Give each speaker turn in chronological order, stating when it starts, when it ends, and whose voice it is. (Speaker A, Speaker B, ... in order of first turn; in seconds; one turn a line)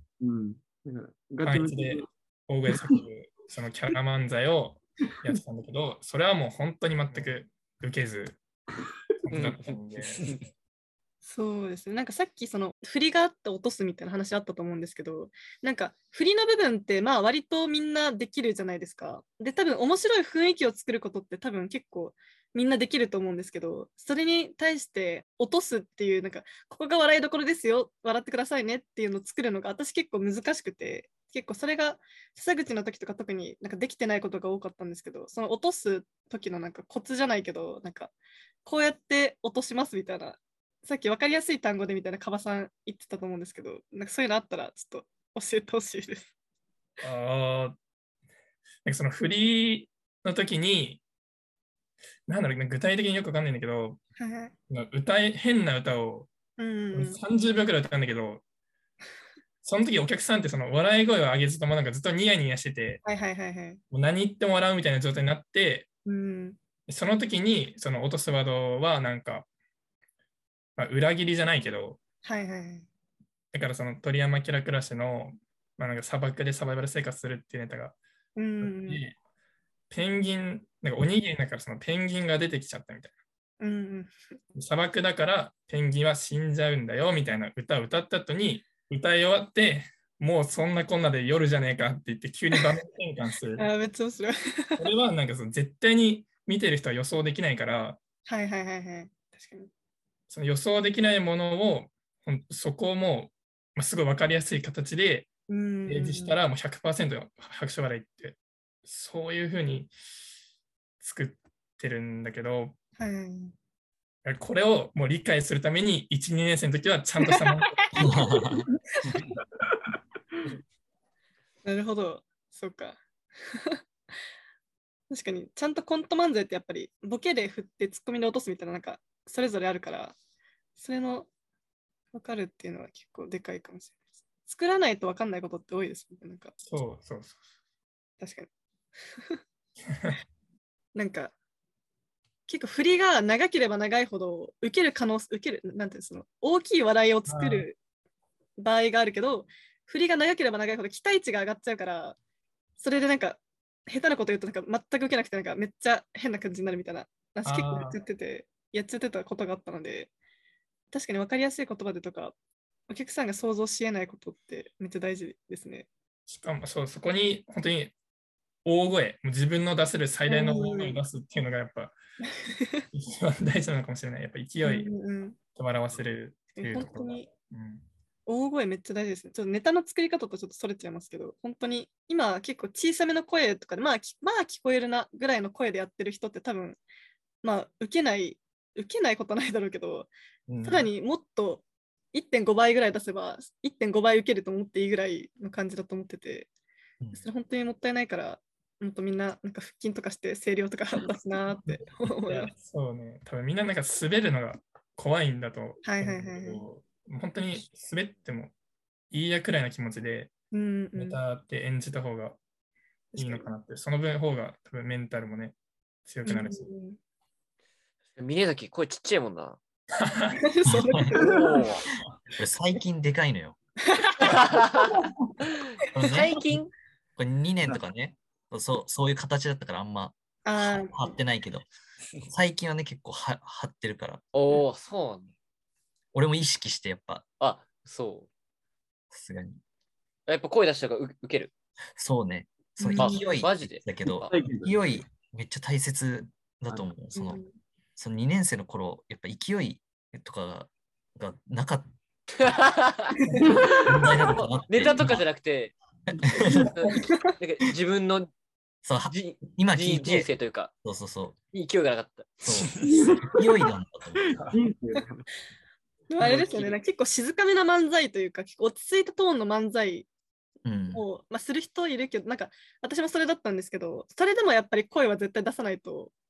Speaker A: 0.2-2.1
Speaker B: 1.4-8.4
Speaker B: 9.2-10.3
Speaker C: 9.3-10.4
Speaker D: 11.2-38.1
Speaker D: 38.6-46.3
Speaker B: 47.0-47.8
Speaker B: 48.8-51.0
Speaker B: 52.3-54.0
Speaker D: 54.2-54.5
Speaker B: 54.7-56.3
Speaker D: 56.6-57.2
Speaker B: 56.9-58.4
Speaker B: 59.6-63.0
Speaker D: 63.0-63.8
Speaker B: 63.9-65.9
Speaker D: 66.0-66.6
Speaker B: 66.9-69.5
Speaker B: 70.8-72.0
Speaker D: 72.2-72.9
Speaker B: 73.5-78.0
Speaker D: 78.3-79.0
Speaker B: 78.6-79.2
Speaker B: 79.9-83.1
Speaker D: 83.6-84.1
Speaker B: 84.5-93.7
Speaker D: 93.6-94.8
Speaker B: 94.8-98.0
Speaker D: 98.2-99.7
Speaker B: 100.3-105.3
Speaker D: 105.5-106.4
Speaker B: 105.9-109.9
Speaker B: 111.0-112.7
Speaker D: 113.0-113.5
Speaker B: 114.2-118.2
Speaker D: 117.2-117.9
Speaker E: 118.0-119.2
Speaker D: 121.6-123.0
Speaker D: 123.5-123.8
Speaker D: 125.1-130.2
Speaker D: 130.8-131.3
Speaker D: 132.1-136.5
Speaker B: 136.7-137.4
Speaker D: 138.2-138.5
Speaker D: 140.9-141.3
Speaker D: 142.5-147.8
Speaker B: 147.3-147.7
Speaker D: 148.6-152.2
Speaker D: 152.8-160.1
Speaker B: 157.4-157.9
Speaker D: 160.9-162.3
Speaker D: 162.9-165.9
Speaker B: 166.3-167.9
Speaker B: 168.6-171.9
Speaker D: 170.2-171.0
Speaker D: 172.5-172.8
Speaker B: 172.9-174.9
Speaker D: 174.6-175.4
Speaker B: 175.5-177.8
Speaker D: 176.6-177.3
Speaker D: 178.3-186.8
Speaker D: 187.4-190.1
Speaker B: 190.5-190.8
Speaker D: 190.6-196.5
Speaker D: 197.1-202.5
Speaker B: 202.3-208.5
Speaker D: 205.8-206.6
Speaker B: 209.1-210.3
Speaker D: 210.5-211.2
Speaker B: 210.9-212.4
Speaker D: 213.1-213.5
Speaker B: 213.1-216.7
Speaker D: 216.2-217.0
Speaker C: 218.2-219.6
Speaker B: 220.0-220.4
Speaker D: 220.4-221.7
Speaker E: 220.7-221.2
Speaker E: 222.4-223.6
Speaker D: 223.9-224.4
Speaker C: 224.2-225.0
Speaker E: 225.9-226.4
Speaker C: 226.1-226.7
Speaker E: 227.2-231.7
Speaker D: 230.4-231.1
Speaker E: 232.2-234.2
Speaker C: 234.3-235.3
Speaker E: 236.1-237.2
Speaker C: 237.4-238.3
Speaker E: 239.1-239.6
Speaker C: 240.3-241.5
Speaker E: 242.0-247.4
Speaker D: 242.8-243.2
Speaker C: 243.0-244.3
Speaker A: 244.3-244.7
Speaker D: 247.1-247.5
Speaker E: 248.0-252.6
Speaker C: 252.3-253.2
Speaker E: 253.7-255.2
Speaker C: 253.7-255.7
Speaker E: 256.3-256.7
Speaker C: 256.7-258.3
Speaker D: 256.9-257.3
Speaker E: 258.8-260.3
Speaker C: 259.1-260.7
Speaker E: 260.8-261.4
Speaker C: 261.5-262.4
Speaker E: 262.4-264.4
Speaker A: 262.8-263.4
Speaker A: 264.2-265.3
Speaker D: 266.1-270.1
Speaker C: 266.2-266.8
Speaker E: 270.6-271.0
Speaker D: 270.9-276.1